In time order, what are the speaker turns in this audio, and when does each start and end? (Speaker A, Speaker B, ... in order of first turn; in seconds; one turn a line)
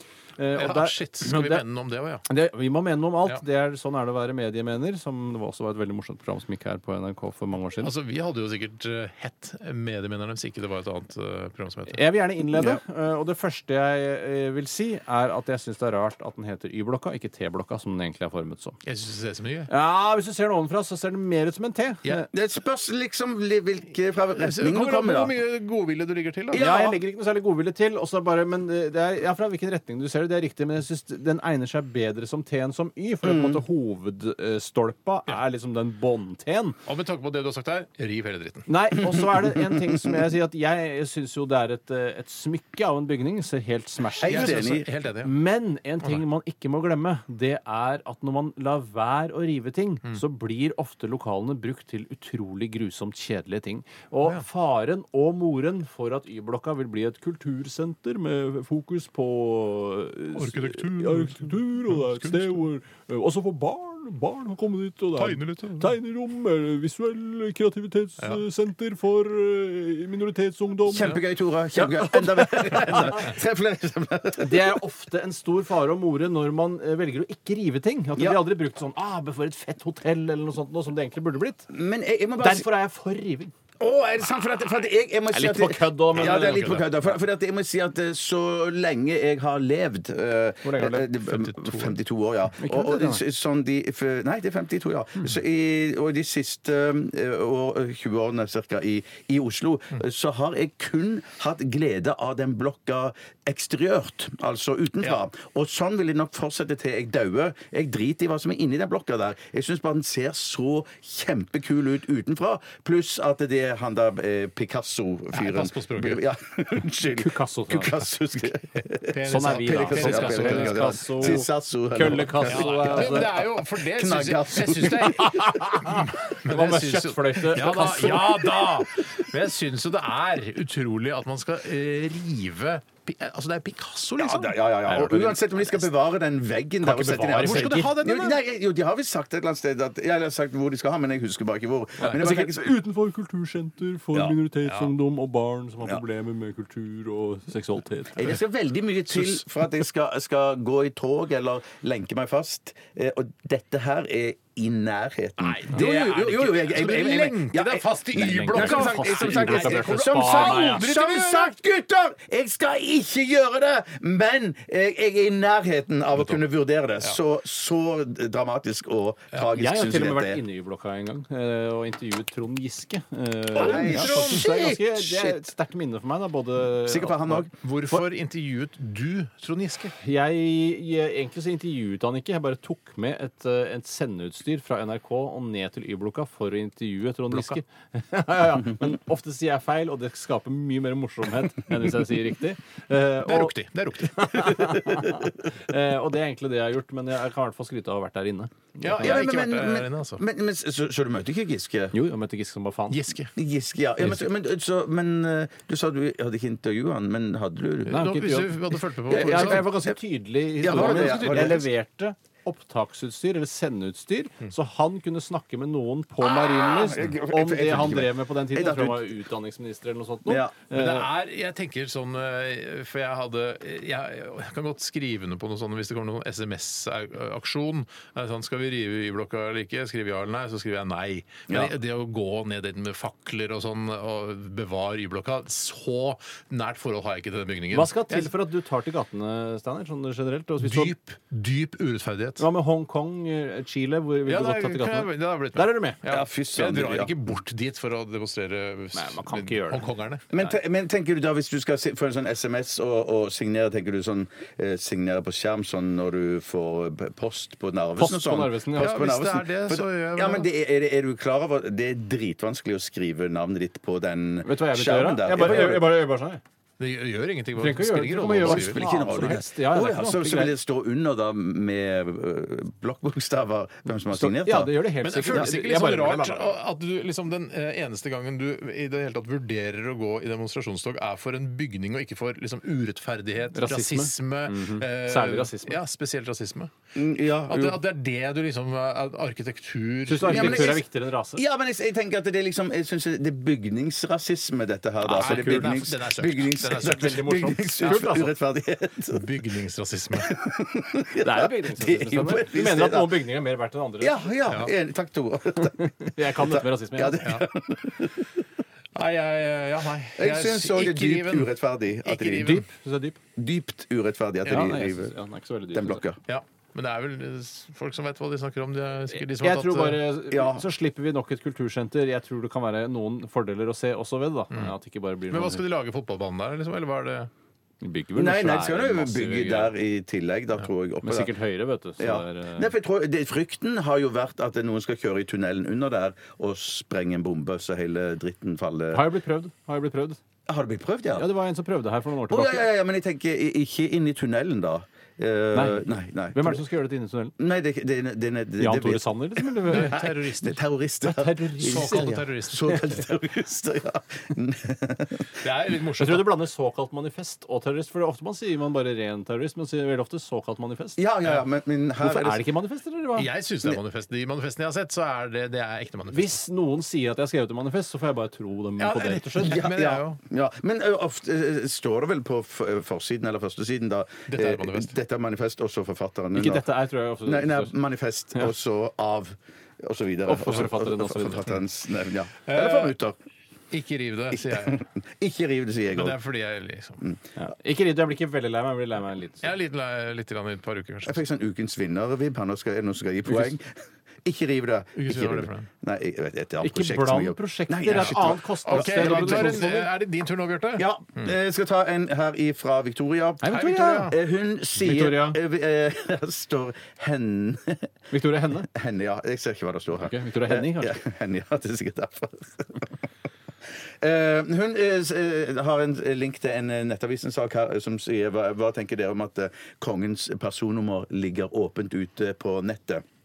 Speaker A: 0.4-1.6
Speaker B: 0.6-2.3
Speaker A: 2.3-7.9
Speaker B: 7.8-12.0
Speaker A: 11.9-18.8
Speaker B: 18.9-19.7
Speaker A: 19.7-22.3
Speaker C: 22.3-25.3
Speaker B: 24.4-26.6
Speaker C: 26.5-27.0
Speaker A: 26.6-36.8
Speaker C: 33.2-33.6
Speaker B: 36.9-38.7
Speaker A: 38.7-71.2
Speaker C: 39.0-40.2
Speaker C: 44.2-44.9
Speaker B: 44.2-45.3
Speaker B: 60.4-62.5
Speaker B: 65.2-65.9
Speaker C: 70.9-74.8
Speaker A: 71.8-73.3
Speaker A: 74.4-81.7
Speaker C: 81.7-82.7
Speaker A: 82.4-83.5
Speaker C: 83.8-125.3
Speaker A: 85.3-86.8
Speaker B: 86.1-87.2
Speaker A: 90.6-91.1
Speaker B: 91.3-92.0
Speaker A: 92.6-93.2
Speaker B: 115.3-116.2
Speaker A: 117.2-118.0
Speaker B: 119.1-121.4
Speaker A: 119.3-123.3
Speaker B: 122.5-134.6
Speaker A: 125.1-128.4
Speaker C: 127.8-128.7
Speaker C: 134.2-142.7
Speaker A: 134.9-135.4
Speaker A: 136.8-137.9
Speaker B: 136.9-138.4
Speaker A: 142.0-148.3
Speaker B: 144.7-144.9
Speaker C: 148.2-170.4
Speaker B: 155.4-161.5
Speaker A: 158.1-160.8
Speaker A: 169.5-178.0
Speaker C: 173.5-175.4
Speaker B: 173.6-174.5
Speaker C: 176.8-177.5
Speaker B: 177.6-179.9
Speaker A: 180.0-199.2
Speaker B: 187.3-187.6
Speaker B: 193.2-195.1
Speaker B: 198.8-200.2
Speaker C: 199.0-201.9
Speaker A: 201.9-203.0
Speaker B: 202.9-203.3
Speaker C: 203.4-208.0
Speaker B: 207.9-209.7
Speaker A: 207.9-221.1
Speaker C: 209.1-209.9
Speaker C: 210.6-211.7
Speaker B: 210.7-211.6
Speaker C: 216.2-219.1
Speaker C: 220.3-220.6
Speaker B: 220.7-238.3
Speaker A: 237.7-240.9
Speaker B: 240.6-242.4
Speaker A: 242.4-246.0
Speaker B: 244.3-250.6
Speaker C: 246.1-247.3
Speaker A: 248.9-249.9
Speaker C: 250.3-266.0
Speaker A: 258.0-258.9
Speaker B: 258.8-260.5
Speaker A: 264.4-266.4
Speaker B: 266.8-269.4
Speaker A: 267.6-270.5
Speaker C: 268.4-274.8
Speaker A: 274.1-276.6
Speaker B: 275.0-286.7
Speaker A: 283.5-285.8
Speaker C: 286.9-287.8
Speaker B: 287.5-290.8
Speaker A: 290.1-291.4
Speaker C: 290.2-299.3
Speaker B: 295.0-298.0
Speaker A: 295.2-295.6
Speaker A: 296.8-298.3
Speaker B: 299.1-300.3
Speaker C: 300.1-303.2
Speaker A: 301.2-304.3
Speaker C: 304.0-308.3
Speaker A: 305.6-307.3
Speaker B: 308.9-311.5
Speaker C: 310.2-312.6
Speaker B: 312.0-312.6
Speaker A: 312.4-313.2
Speaker C: 313.4-315.1
Speaker A: 314.4-316.0
Speaker C: 315.7-316.2
Speaker B: 316.3-320.0
Speaker A: 319.1-325.6
Speaker C: 320.3-320.6
Speaker B: 325.3-327.3
Speaker A: 327.8-329.7
Speaker C: 328.2-331.3
Speaker A: 331.0-332.7
Speaker C: 332.0-339.1
Speaker A: 338.9-340.2
Speaker C: 340.5-341.3
Speaker A: 341.2-342.7
Speaker C: 342.3-346.6
Speaker A: 345.5-347.4
Speaker C: 347.4-355.4
Speaker A: 348.6-350.0
Speaker B: 349.7-350.6
Speaker A: 351.0-352.2
Speaker B: 351.6-352.9
Speaker B: 355.4-356.3
Speaker A: 356.0-361.0
Speaker C: 361.0-362.4
Speaker A: 362.0-363.3
Speaker B: 363.2-366.4
Speaker A: 366.1-369.7
Speaker B: 368.8-370.2
Speaker C: 369.4-376.7
Speaker B: 374.3-374.9
Speaker A: 376.3-377.7
Speaker C: 377.2-383.2
Speaker A: 380.3-381.5
Speaker B: 382.5-382.9
Speaker B: 383.7-384.8
Speaker C: 384.3-386.2
Speaker B: 385.9-387.0
Speaker A: 387.4-389.5
Speaker B: 389.4-391.2
Speaker C: 391.1-399.7
Speaker B: 395.0-395.7
Speaker A: 396.6-399.9
Speaker B: 397.9-400.9
Speaker C: 400.8-407.9
Speaker A: 403.4-404.1
Speaker B: 403.5-404.2
Speaker A: 404.8-405.4
Speaker A: 408.1-408.7
Speaker C: 408.7-412.9
Speaker A: 410.0-411.0
Speaker C: 414.0-423.0